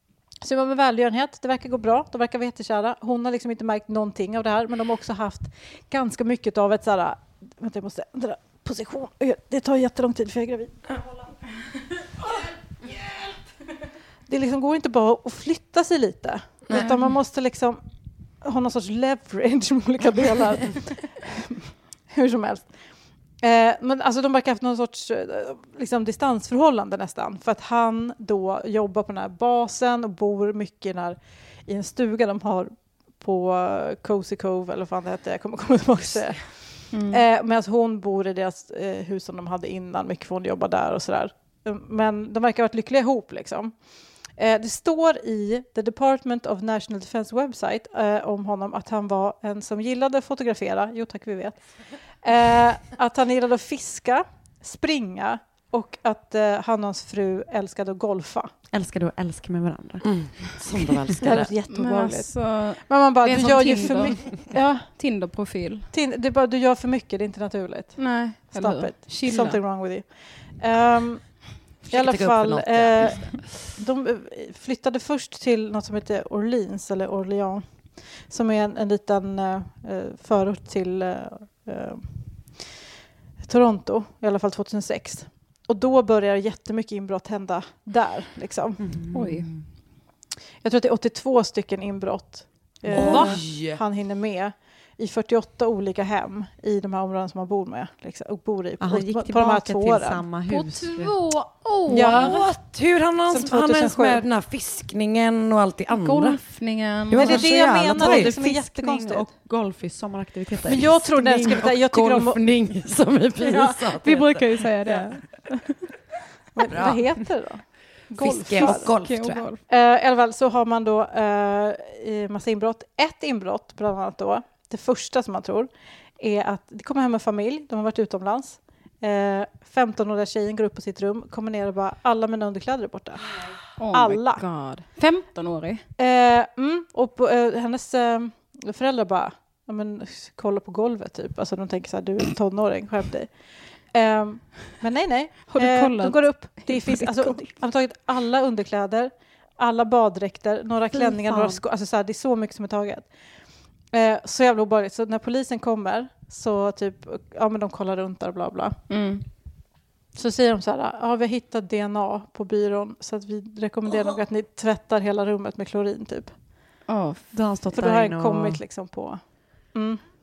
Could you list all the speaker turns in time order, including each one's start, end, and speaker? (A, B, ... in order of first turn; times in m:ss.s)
0:00.4-0:11.0 A
0:14.3-0:17.8 A
0:18.4-0:22.7 A
0:23.4-0:43.7 A
0:36.9-0:37.2 B
0:44.4-0:51.6 A
0:52.2-0:58.5 A
0:58.7-1:00.0 C
1:00.0-1:01.5 D
1:01.2-1:04.8 A
1:01.7-1:05.9 B
1:05.9-1:17.6 A
1:08.0-1:09.6 B
1:11.8-1:13.6 D
1:18.3-1:22.1 A
1:23.4-1:28.9 A
1:28.8-1:29.6 C
1:29.1-1:29.5 B
1:30.6-1:40.2 A
1:32.9-1:33.8 D
1:38.8-1:41.1 C
1:40.5-1:42.4 B
1:41.9-1:42.4 A
1:41.9-1:46.4 D
1:43.3-1:44.2 A
1:45.9-1:47.4 B
1:47.1-1:48.3 D
1:47.1-1:49.3 A
1:47.9-1:51.0 C
1:50.7-1:52.4 A
1:51.1-1:55.0 D
1:53.4-1:55.8 B
1:56.5-1:58.9 A
1:56.6-1:57.0 D
1:58.2-1:59.5 D
1:58.6-1:59.6 B
1:59.7-2:14.4 A
2:13.8-2:15.8 B
2:16.0-2:23.3 A
2:23.9-2:33.1 A
2:25.5-2:27.5 B
2:30.9-2:31.6 C
2:33.9-2:38.8 A
2:38.9-2:39.2 B
2:40.2-2:46.3 A
2:46.9-2:47.2 B
2:47.3-2:48.6 C
2:47.7-2:49.2 A
2:49.7-2:50.0 A